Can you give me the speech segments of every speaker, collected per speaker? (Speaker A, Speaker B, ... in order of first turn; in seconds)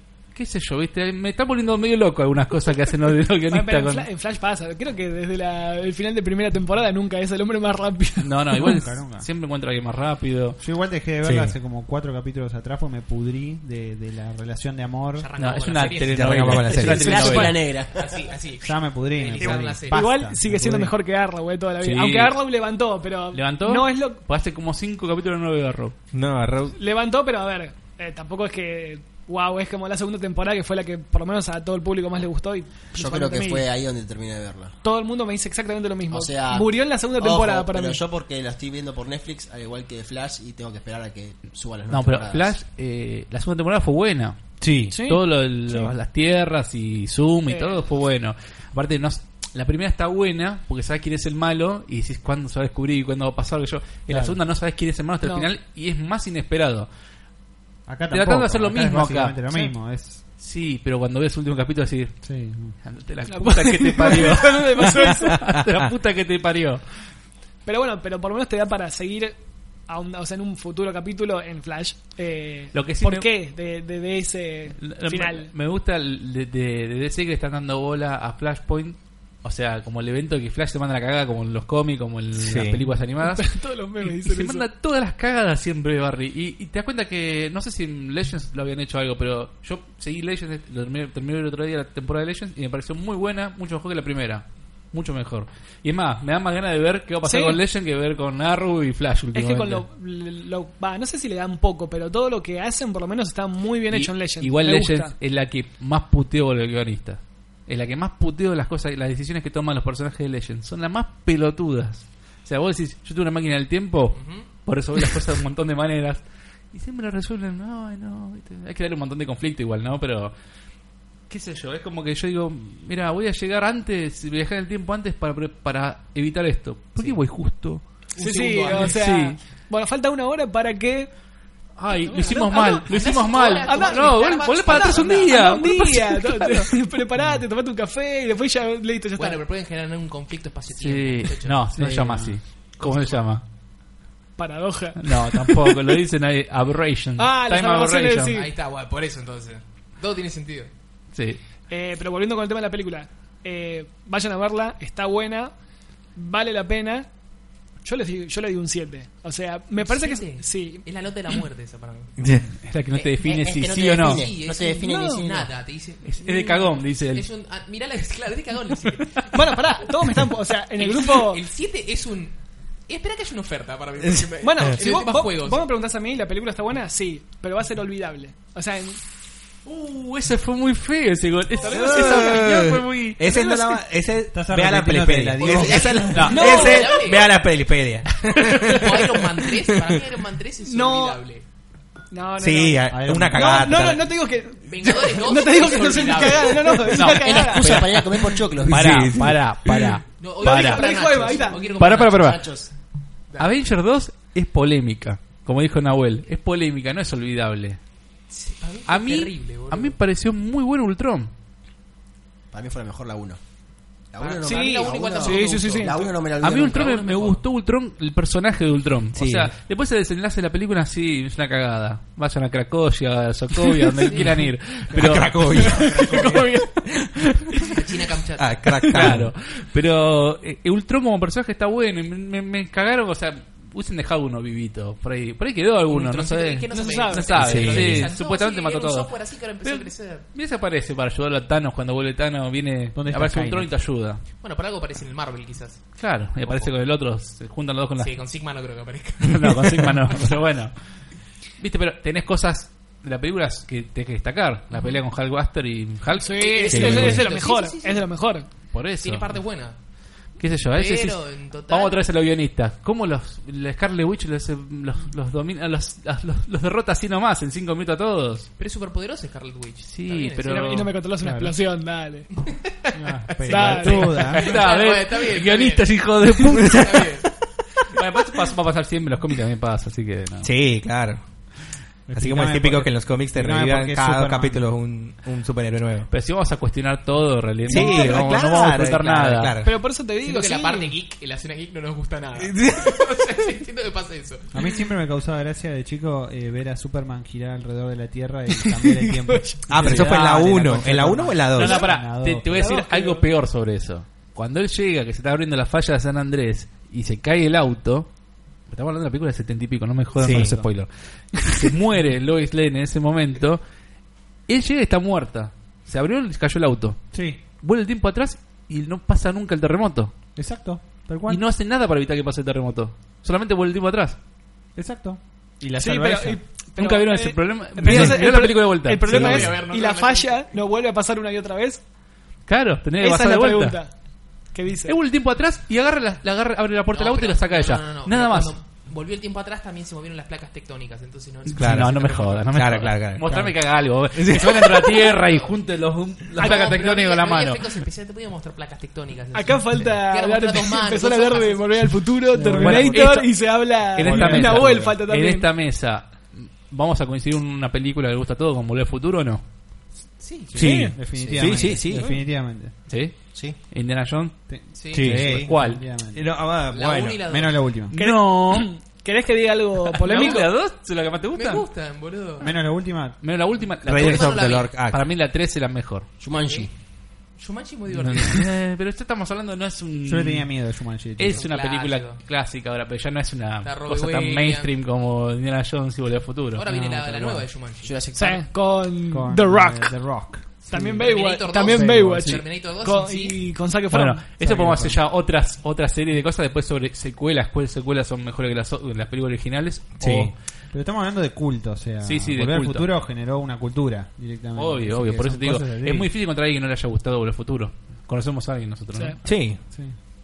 Speaker A: 0.3-4.0, 8.2-10.6, 15.4-17.6, 21.8-22.4, 23.3-25.9, 41.9-44.4, 44.9-56.9, 58.1-59.4, 60.4-62.2, 62.8-66.8, 72.7-73.3, 74.8-99.8, 103.9-120.3, 121.3-127.8, 128.7-129.4, 131.8-136.7, 140.8-143.4, 145.0-148.4, 151.1-151.4, 162.6-164.3, 166.0-167.2, 179.6-183.4, 186.1-186.7, 196.9-202.4, 203.4-207.8, 208.9-211.3, 216.4-227.7, 228.8-244.2, 246.0-248.2, 249.3-250.7, 251.6-257.2, 258.7-259.4, 260.4-268.5, 269.9-270.9, 273.8-277.1, 277.9-280.5, 286.1-289.6, 301.5-308.1, 308.7-313.6, 314.5-317.0, 317.6-320.1, 321.3-324.2, 326.8-329.6, 332.5-333.8, 334.9-338.6, 341.5-347.7, 352.6-359.4, 362.9-364.4, 365.0-365.9, 367.9-368.7, 369.9-371.7, 373.2-376.1, 377.9-380.5, 381.2-386.7, 393.9-400.3, 402.0-402.9, 404.6-409.2
Speaker B: 3.5-8.6, 19.9-24.2, 26.7-33.6, 34.8-38.0, 44.9-45.2, 47.5-47.9, 55.2-55.5, 63.3-65.5, 67.7-69.4, 69.9-75.5, 83.2-84.7, 97.2-97.6, 99.3-105.1, 128.2-131.1, 131.9-139.4, 144.4-145.8, 147.2-148.5, 151.7-155.5, 156.2-157.1, 157.8-160.8, 164.7-165.2, 169.3-171.4, 174.4-179.0, 181.6-182.5, 183.3-183.8, 186.2-187.1, 190.6-191.2, 192.1-197.9, 200.4-201.8, 214.4-216.0, 225.6-226.7, 236.7-237.6, 256.2-258.5, 270.4-272.3, 273.4-274.4, 287.7-288.1, 289.6-290.9, 298.5-299.7, 302.5-303.3, 325.8-331.8, 333.0-333.9, 334.5-335.0, 346.4-346.9, 349.3-355.5, 360.6-361.0, 361.9-362.2, 367.9-370.5, 388.1-389.9, 390.7-394.2
Speaker C: 8.6-9.3, 10.6-15.3, 18.6-20.9, 54.1-54.4, 57.9-60.2, 62.2-62.7, 141.7-142.4, 184.3-186.3, 192.9-193.8, 242.9-243.7, 271.2-271.5, 272.9-274.4, 282.1-284.7, 294.5-302.7, 310.2-310.7, 317.1-317.4, 320.4-321.4, 324.7-326.4, 352.3-353.2, 353.9-355.0, 360.5-362.7, 364.5-366.5, 367.3-367.9, 372.4-373.2, 380.0-381.5, 386.6-387.5, 389.1-392.3, 394.4-395.0, 400.7-406.1, 409.5-409.9
Speaker D: 11.2-11.5, 16.0-17.4, 26.1-26.8, 44.6-45.0, 82.4-82.8, 162.2-162.5, 174.0-174.3, 181.7-190.0, 192.4-194.1, 198.6-200.0, 219.1-219.5, 224.9-227.1, 228.4-229.3, 237.3-238.1, 256.7-257.2, 276.5-276.9, 280.4-281.2, 282.1-286.1, 287.6-289.8, 292.4-293.1, 299.7-301.9, 310.2-310.5, 341.6-343.6, 344.1-345.0, 360.5-362.1, 364.9-365.5, 366.1-367.2, 373.9-375.0, 400.0-400.3, 409.2-409.6
Speaker E: 15.2-16.6, 17.4-20.0, 114.1-114.5, 128.2-129.0, 132.7-135.4, 139.1-141.6, 142.8-143.2, 148.3-150.7, 159.8-162.1, 164.0-169.3, 170.7-172.4, 172.9-175.7, 185.4-187.3, 188.7-191.4, 194.6-197.1, 200.2-202.4, 203.3-203.6, 208.3-210.0, 214.2-217.4, 224.0-224.3, 227.7-228.8, 235.9-240.2, 244.4-246.7, 248.0-250.1, 254.7-255.0, 256.2-258.1, 259.0-259.8, 260.7-262.0, 268.6-270.7, 272.4-277.3, 290.2-294.5, 329.0-330.4, 336.9-342.5, 346.4-351.9, 360.2-360.6, 364.7-365.1, 366.7-367.7, 370.1-370.4, 371.3-372.5, 373.8-374.7, 376.4-376.7, 377.4-378.5, 381.3-382.2, 383.6-384.7, 386.5-387.9, 391.0-393.4
Speaker F: 16.7-18.3, 32.9-34.7, 36.1-42.5, 162.9-165.5, 197.1-198.9, 201.8-202.7, 212.5-213.4, 214.1-216.9, 361.1-361.7, 376.2-376.7, 387.8-388.4